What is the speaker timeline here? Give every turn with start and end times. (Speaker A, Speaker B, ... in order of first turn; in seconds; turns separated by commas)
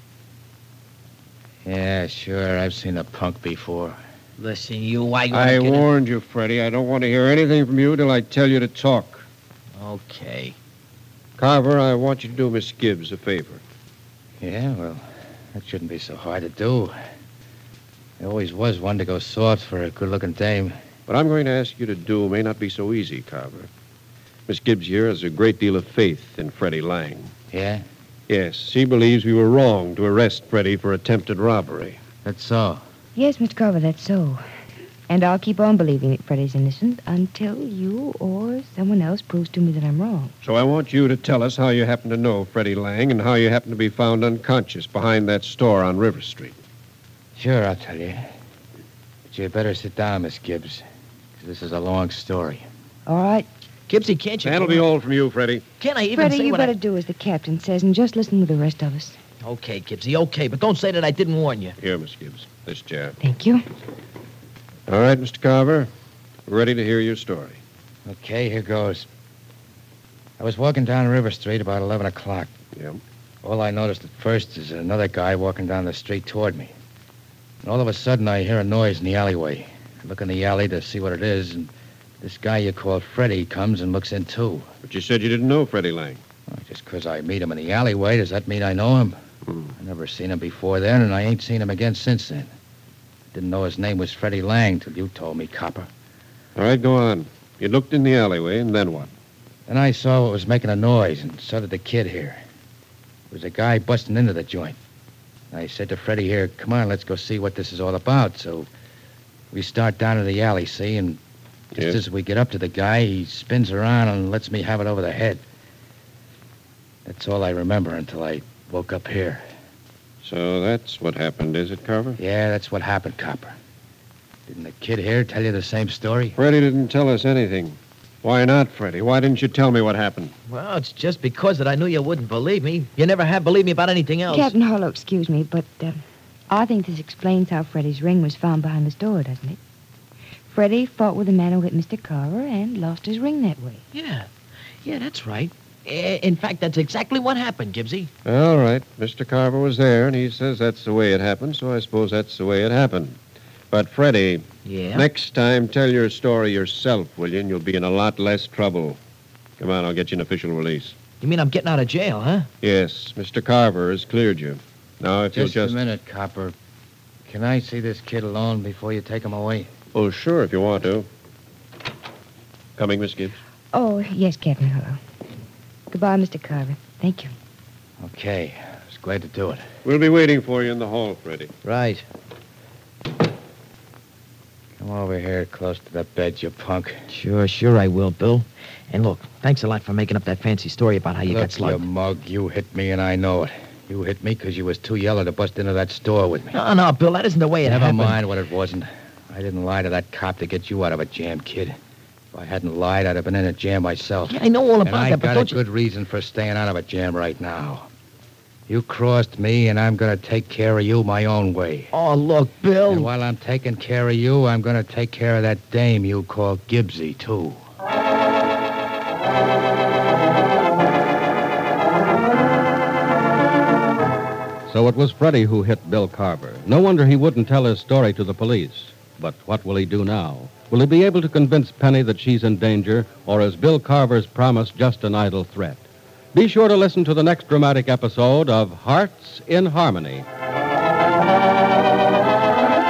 Speaker A: 1.6-4.0, Speaker B: 4.4-5.9, Speaker C: 5.3-9.3, Speaker B: 9.8-10.6, Speaker C: 11.4-13.6, Speaker A: 14.4-15.0, Speaker A: 15.5-16.9, Speaker A: 18.2-20.7, Speaker C: 21.1-23.7, Speaker C: 24.5-27.3, Speaker A: 27.5-27.8, Speaker C: 28.3-32.0, Speaker A: 32.2-32.8, Speaker D: 33.2-34.4, Speaker D: 35.1-40.3, Speaker C: 40.4-46.6, Speaker A: 47.4-48.2, Speaker A: 49.3-50.8, Speaker A: 51.4-52.7, Speaker D: 53.1-53.5, Speaker B: 53.9-54.9, Speaker C: 54.4-55.6, Speaker B: 55.8-56.7, Speaker D: 56.1-59.2, Speaker B: 59.4-61.8, Speaker C: 61.8-63.2, Speaker D: 63.2-63.6, Speaker C: 64.9-65.9, Speaker C: 66.5-67.6, Speaker A: 68.1-69.1, Speaker A: 70.4-72.5, Speaker C: 72.8-73.0, Speaker A: 73.4-76.7, Speaker A: 77.6-81.7, Speaker A: 82.2-84.7, Speaker C: 84.8-86.2, Speaker A: 86.5-89.2, Speaker C: 89.5-89.7, Speaker A: 89.8-92.5, Speaker A: 93.3-95.9, Speaker C: 96.6-99.1, Speaker A: 99.7-102.4, Speaker A: 103.3-104.8, Speaker A: 105.5-108.7, Speaker A: 109.5-111.2, Speaker A: 111.8-115.4, Speaker A: 117.1-119.4, Speaker C: 120.2-122.2, Speaker A: 122.2-123.5, Speaker A: 124.5-126.4, Speaker C: 126.4-130.3, Speaker B: 130.5-134.5, Speaker D: 134.3-139.6, Speaker D: 140.5-143.8, Speaker B: 143.9-144.3, Speaker B: 144.8-148.1, Speaker C: 148.2-153.2, Speaker C: 153.7-159.0, Speaker B: 154.7-155.1, Speaker C: 159.6-161.0, Speaker B: 161.2-162.5, Speaker C: 162.6-165.8, Speaker A: 165.3-166.6, Speaker A: 167.3-169.7, Speaker C: 169.9-171.1, Speaker C: 172.8-173.4, Speaker D: 173.7-175.0, Speaker D: 175.9-177.3, Speaker A: 178.0-179.6, Speaker C: 179.8-181.5, Speaker B: 181.7-182.0, Speaker A: 184.8-187.0, Speaker B: 187.1-191.8, Speaker A: 191.3-196.6, Speaker B: 196.5-198.2, Speaker A: 197.7-201.8, Speaker A: 202.3-207.9, Speaker B: 204.3-205.6, Speaker A: 208.7-211.9, Speaker B: 211.9-213.1, Speaker A: 212.9-217.6, Speaker E: 224.7-235.8, Speaker E: 236.3-240.3